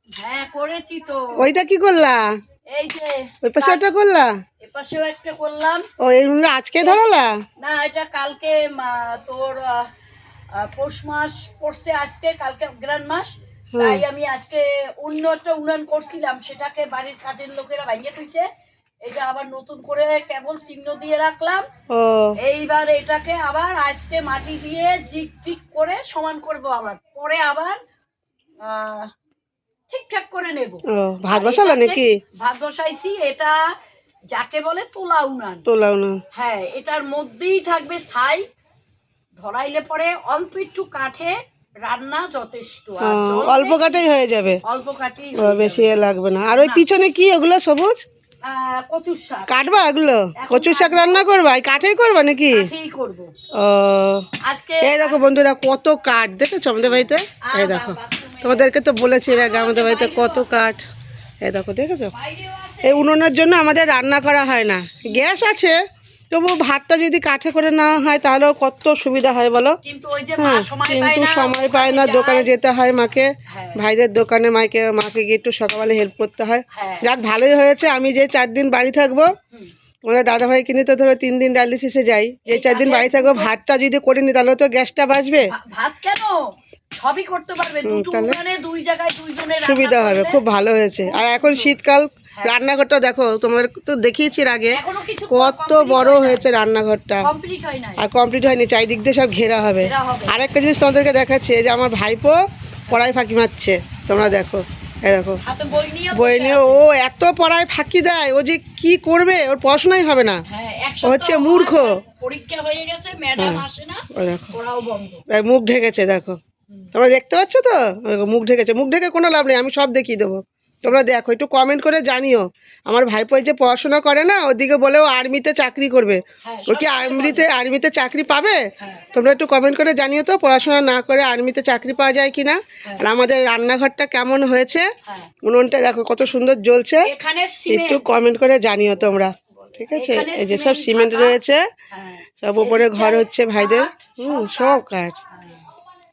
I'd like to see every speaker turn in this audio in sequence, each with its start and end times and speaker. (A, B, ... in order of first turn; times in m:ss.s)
0:00.1-0:01.4 A
0:01.4-0:02.2 B
0:02.7-0:03.9 A
0:03.4-0:04.3 B
0:04.6-0:05.9 A
0:06.0-0:07.4 B
0:07.6-0:09.9 A
0:10.5-0:18.5 A
0:13.7-0:14.0 B
0:19.0-0:21.6 A
0:21.9-0:22.4 B
0:22.4-0:27.8 A
0:28.6-0:29.1 A
0:29.9-0:33.6 A
0:30.9-0:32.1 B
0:34.3-0:35.6 A
0:35.7-0:36.2 B
0:36.3-0:38.4 A
0:39.4-0:44.1 A
0:43.0-0:44.6 B
0:44.6-0:46.8 A
0:45.4-0:48.0 B
0:48.4-0:49.5 A
0:49.5-0:52.7 B
0:50.4-0:51.4 A
0:52.5-0:53.3 A
0:53.6-0:54.3 B
0:54.4-0:55.3 A
0:54.8-1:00.8 B
0:56.8-0:58.7 A
0:59.3-1:00.7 A
1:01.4-1:02.1 B
1:02.1-1:03.1 A
1:02.8-1:05.8 B
1:05.0-1:05.4 A
1:06.3-1:09.8 B
1:09.8-1:12.5 A
1:10.4-1:19.3 B
1:13.5-1:13.8 A
1:16.7-1:17.1 A
1:20.0-1:25.5 B
1:22.4-1:23.5 A
1:25.5-1:26.4 A
1:27.0-1:30.4 A
1:27.8-1:28.4 B
1:29.6-1:34.8 B
1:31.0-1:31.8 A
1:32.3-1:32.6 A
1:34.7-1:36.4 A
1:35.3-1:37.3 B
1:37.2-1:38.0 A
1:38.0-1:42.4 B
1:39.8-1:40.4 A
1:42.9-1:45.4 B
1:45.4-1:46.8 A
1:46.1-1:50.4 B
1:50.5-1:55.2 A
1:51.0-1:52.0 B
1:53.4-1:54.5 B
1:55.3-1:56.4 B
1:56.9-2:08.6 B
2:06.4-2:07.5 A
2:08.8-2:09.1 A
2:09.1-2:14.9 B
2:15.1-2:15.3 A
2:15.4-2:17.1 B
2:17.0-2:18.1 A
2:17.7-2:21.6 B
2:19.9-2:21.4 A
2:21.9-2:25.7 A
2:22.4-2:25.2 B